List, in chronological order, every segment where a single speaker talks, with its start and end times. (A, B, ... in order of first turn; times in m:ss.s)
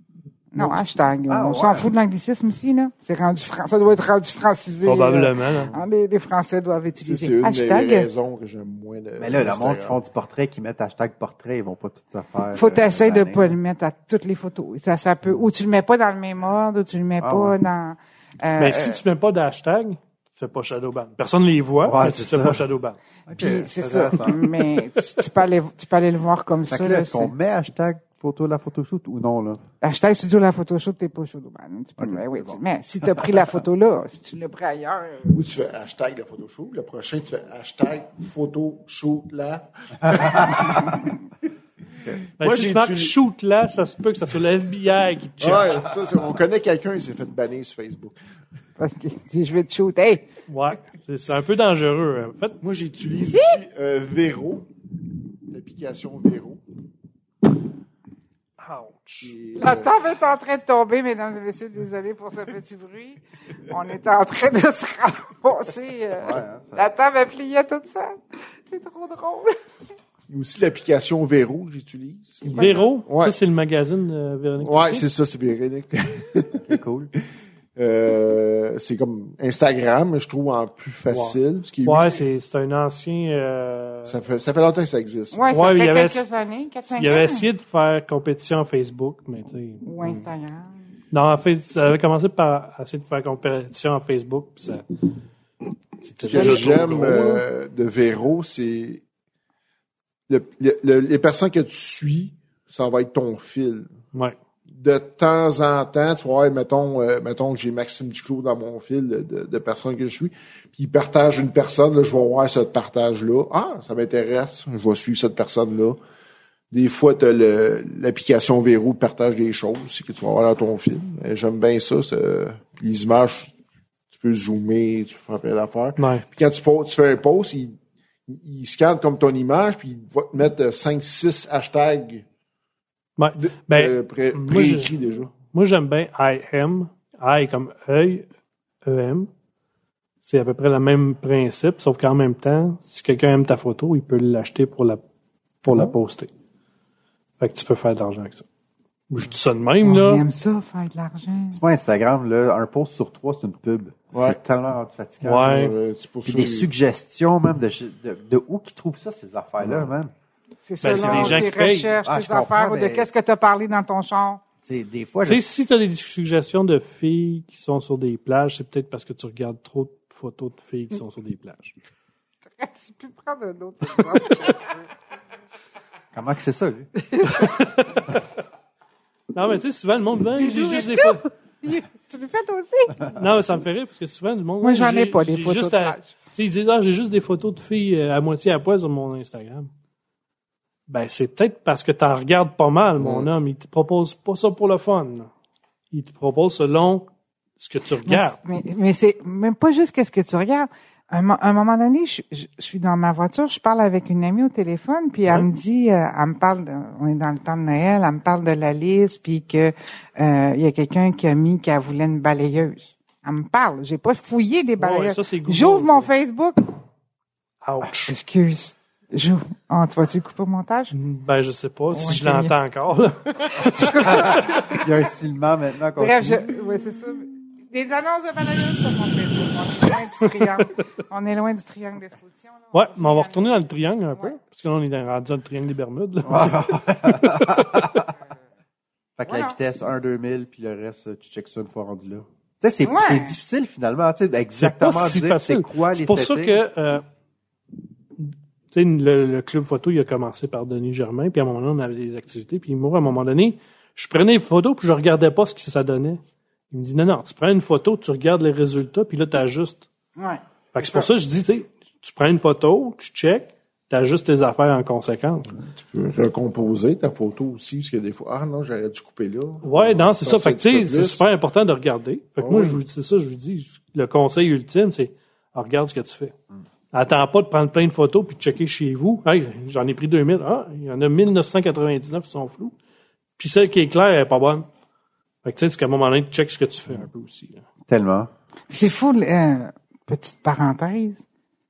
0:00.5-0:08.1 A
0:01.3-0:01.9 B
0:04.9-0:05.7 C
0:07.0-0:10.0 D
0:09.2-0:13.6 B
0:12.5-0:19.0 A
0:17.2-0:17.6 B
0:18.6-0:23.0 C
0:21.8-0:22.6 B
0:23.3-0:24.4 B
0:23.3-0:27.3 A
0:26.7-0:29.6 B
0:29.8-0:35.4 A
0:32.0-0:33.4 B
0:35.3-0:41.2 D
0:40.2-0:40.6 B
0:42.4-0:46.0 C
0:42.4-0:43.1 D
0:45.4-0:48.2 D
0:48.8-0:50.3 A
0:50.5-0:52.6 C
0:52.6-0:54.7 D
0:55.5-0:56.6 D
0:58.6-0:59.3 C
0:59.2-1:00.0 D
0:59.6-1:09.6 A
1:06.2-1:06.9 B
1:10.3-1:13.4 D
1:12.5-1:15.0 C
1:12.5-1:12.9 A
1:14.6-1:16.8 D
1:16.5-1:17.1 B
1:17.8-1:22.2 D
1:21.1-1:24.2 C
1:24.0-1:25.5 D
1:25.3-1:27.5 A
1:25.5-1:26.3 C
1:26.9-1:29.8 C
1:29.8-1:30.7 A
1:31.1-1:34.9 C
1:36.0-1:37.4 C
1:36.2-1:39.0 D
1:36.3-1:36.8 A
1:40.3-1:43.9 D
1:44.7-1:56.0 D
1:56.7-2:03.5 D
2:04.1-2:12.2 D
2:06.0-2:06.2 C
2:13.2-2:18.3 C
2:13.4-2:15.3 D
2:18.8-2:19.3 C
2:20.2-2:25.0 C
2:25.6-2:26.3 C
2:27.4-2:28.4 C
2:29.1-2:30.2 C
2:29.8-2:31.6 A
2:31.5-2:35.6 B
2:34.1-2:34.4 D
2:35.2-2:35.7 C
2:35.4-2:36.7 D
2:36.2-2:40.1 B
2:39.6-2:39.9 D
2:40.6-2:44.4 A
2:40.8-2:42.0 C
2:40.9-2:43.1 B
2:44.6-2:45.6 B
2:45.3-2:51.7 C
2:52.6-2:54.8 A
2:56.1-2:56.9 B
2:57.1-2:57.5 A
2:57.3-2:58.2 C
2:59.3-3:01.2 C
3:00.3-3:03.0 A
3:03.1-3:09.7 C
3:04.6-3:06.1 A
3:10.9-3:15.3 C
3:13.0-3:13.3 D
3:15.9-3:18.4 C
3:18.0-3:36.8 A
3:34.8-3:36.1 C
3:37.6-3:38.1 C
3:38.1-3:40.9 A
3:40.9-3:44.6 C
3:41.9-3:42.5 A
3:43.4-3:44.8 A
3:44.0-3:46.6 B
3:46.0-3:53.6 A
3:52.7-3:57.9 C
3:56.2-3:58.1 B
3:59.2-4:06.6 B
3:59.3-3:59.6 A
4:02.8-4:03.4 A
4:04.6-4:07.0 C
4:08.2-4:16.2 C
4:16.7-4:19.9 C
4:20.2-4:21.1 A
4:20.7-4:25.6 C
4:25.6-4:31.2 D
4:29.6-4:36.3 C
4:32.4-4:32.8 D
4:36.9-4:42.7 C
4:43.4-4:44.6 C
4:45.4-4:47.6 C
4:47.9-4:48.3 B
4:48.7-4:51.2 A